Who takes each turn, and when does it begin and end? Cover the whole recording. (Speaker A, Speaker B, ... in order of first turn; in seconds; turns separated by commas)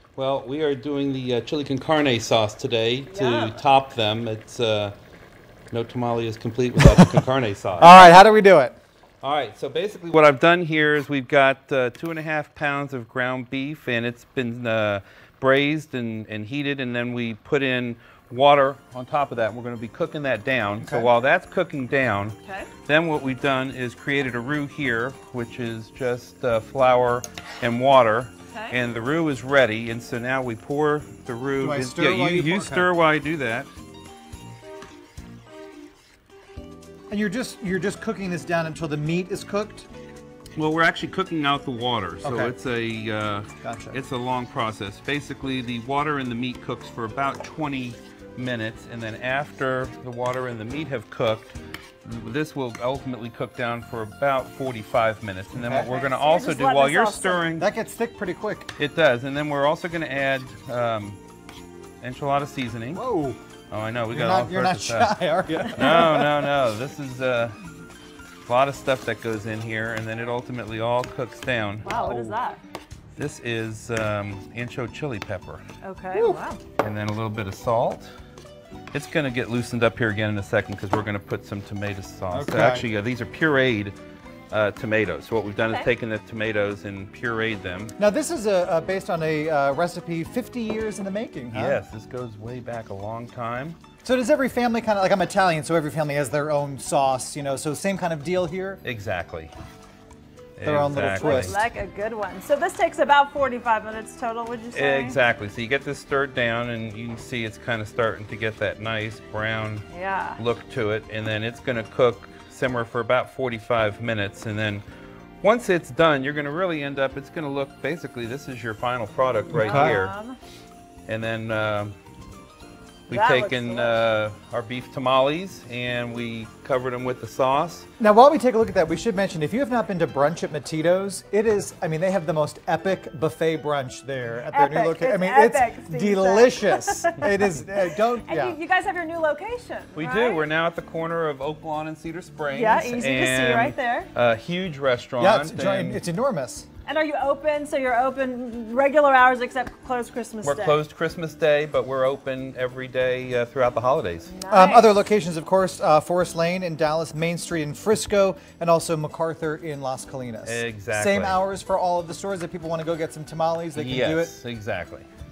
Speaker A: 0.1-5.0, Speaker B: 3.1-3.6, Speaker A: 5.7-8.1, Speaker C: 6.8-7.2, Speaker C: 7.8-8.8, Speaker A: 9.2-33.7, Speaker C: 20.8-21.1, Speaker B: 22.4-22.7, Speaker B: 28.5-28.8, Speaker C: 31.6-32.9, Speaker C: 37.1-39.9, Speaker A: 40.5-57.7, Speaker C: 42.2-42.5, Speaker C: 43.6-44.0, Speaker C: 55.5-55.9, Speaker B: 55.8-57.5, Speaker C: 57.6-58.7, Speaker A: 58.8-61.2, Speaker A: 62.0-63.0, Speaker C: 62.9-63.4, Speaker A: 63.7-67.5, Speaker C: 64.1-66.5, Speaker A: 68.4-71.9, Speaker B: 71.8-72.6, Speaker C: 71.9-72.3, Speaker A: 73.2-75.6, Speaker B: 75.8-76.6, Speaker A: 76.8-78.1, Speaker A: 78.9-84.0, Speaker C: 82.3-82.8, Speaker A: 84.5-87.9, Speaker C: 88.0-91.8, Speaker A: 91.5-93.8, Speaker C: 94.0-98.8, Speaker A: 98.8-99.5, Speaker A: 100.6-101.6, Speaker C: 100.6-101.6, Speaker B: 101.0-105.2, Speaker A: 104.7-109.8, Speaker B: 109.9-110.4, Speaker A: 110.4-114.8, Speaker A: 115.4-120.1, Speaker C: 119.5-120.0, Speaker B: 119.5-120.4, Speaker A: 121.1-121.9, Speaker A: 123.1-127.9, Speaker B: 123.1-124.0, Speaker C: 128.0-138.6, Speaker B: 134.5-140.4, Speaker A: 139.9-146.0, Speaker B: 142.5-144.1, Speaker C: 145.2-146.7, Speaker B: 146.8-150.8, Speaker A: 150.4-154.3, Speaker B: 154.3-154.9, Speaker C: 154.5-164.3, Speaker A: 160.4-161.4, Speaker A: 163.7-165.1